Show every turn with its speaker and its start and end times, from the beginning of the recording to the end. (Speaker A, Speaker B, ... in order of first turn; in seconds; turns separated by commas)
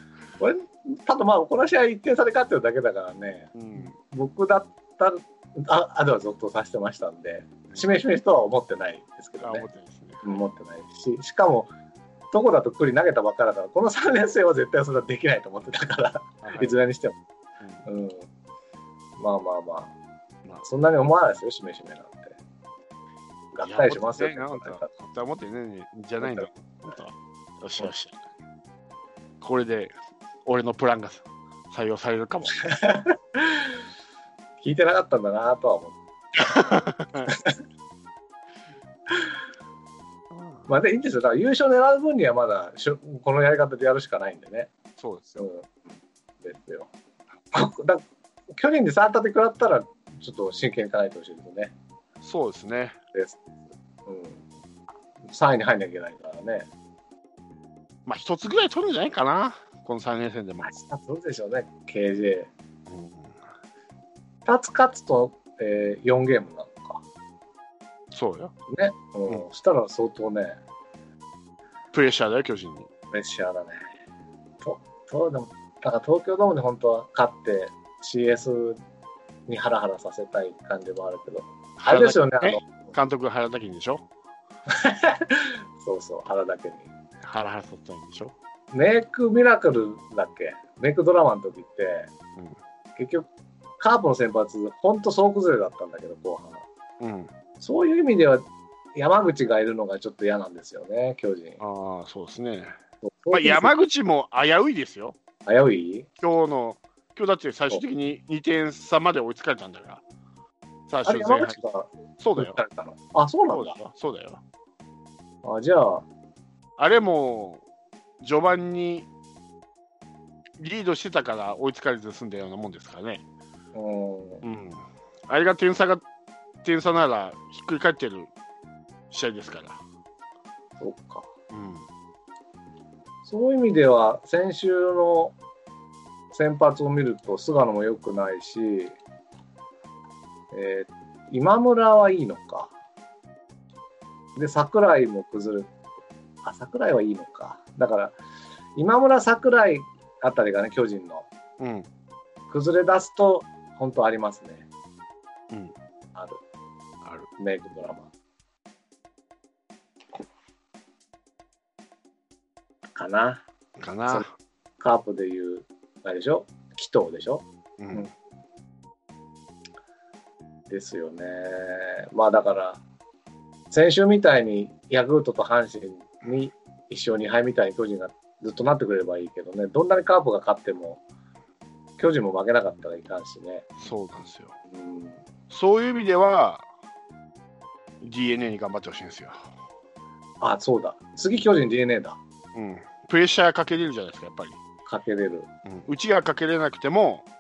Speaker A: 0.4-9.7, Speaker B: 3.5-4.0, Speaker B: 9.4-10.4, Speaker A: 10.2-11.7, Speaker A: 12.3-17.2, Speaker B: 16.4-16.8, Speaker B: 17.6-17.9, Speaker A: 17.9-18.2, Speaker A: 19.2-19.9, Speaker A: 20.6-22.4, Speaker B: 23.5-28.2, Speaker A: 23.6-24.9, Speaker A: 26.2-26.5, Speaker B: 29.4-29.9, Speaker B: 30.4-32.6, Speaker A: 32.6-33.7, Speaker A: 34.6-36.0, Speaker B: 36.4-37.3, Speaker A: 37.3-37.5, Speaker B: 40.3-40.7, Speaker A: 40.7-44.7, Speaker B: 45.0-45.5, Speaker A: 45.4-45.9, Speaker A: 46.4-46.9, Speaker A: 47.5-51.7, Speaker B: 52.2-53.0, Speaker A: 53.1-53.4, Speaker A: 54.1-54.4, Speaker A: 55.2-56.7, Speaker B: 58.1-60.7, Speaker A: 60.6-62.5, Speaker B: 62.9-63.4, Speaker A: 64.5-67.0, Speaker B: 68.1-68.5, Speaker A: 68.7-70.6, Speaker B: 71.9-72.9, Speaker A: 73.1-73.8, Speaker A: 74.6-78.8, Speaker A: 79.5-82.7, Speaker B: 81.8-84.1, Speaker A: 84.7-86.9, Speaker B: 87.2-88.3, Speaker A: 88.7-92.1, Speaker A: 93.0-93.3, Speaker A: 93.8-96.7, Speaker B: 97.0-97.3, Speaker A: 97.6-101.6, Speaker B: 101.6-102.8, Speaker A: 103.0-103.7, Speaker B: 103.3-105.2, Speaker A: 105.5-106.1, Speaker B: 106.2-110.0, Speaker B: 110.9-111.6, Speaker A: 111.0-113.8, Speaker B: 112.2-112.6, Speaker B: 113.5-114.4, Speaker A: 115.4-116.0, Speaker B: 116.8-117.6, Speaker B: 118.2-119.1, Speaker B: 120.6-123.2, Speaker A: 123.7-124.4, Speaker B: 124.4-126.0, Speaker B: 126.6-128.3, Speaker B: 129.1-129.8, Speaker A: 130.8-131.3, Speaker B: 131.5-131.9, Speaker A: 133.2-135.4, Speaker A: 136.3-139.0, Speaker A: 140.5-142.7, Speaker A: 144.4-145.7, Speaker A: 146.4-148.2, Speaker A: 148.8-151.3, Speaker B: 151.6-151.9, Speaker A: 152.5-154.7, Speaker B: 155.5-155.8, Speaker A: 156.2-156.4, Speaker B: 157.0-157.3, Speaker A: 157.4-158.1, Speaker A: 162.9-163.4, Speaker B: 163.8-164.3, Speaker A: 164.8-168.1, Speaker B: 167.8-168.1, Speaker A: 170.7-172.8, Speaker A: 173.7-181.0, Speaker A: 182.0-183.7, Speaker B: 183.8-184.6, Speaker A: 184.7-185.2, Speaker B: 185.5-186.7, Speaker B: 188.0-189.4, Speaker A: 190.4-192.2, Speaker B: 192.6-194.6, Speaker A: 194.9-195.5, Speaker B: 195.7-197.3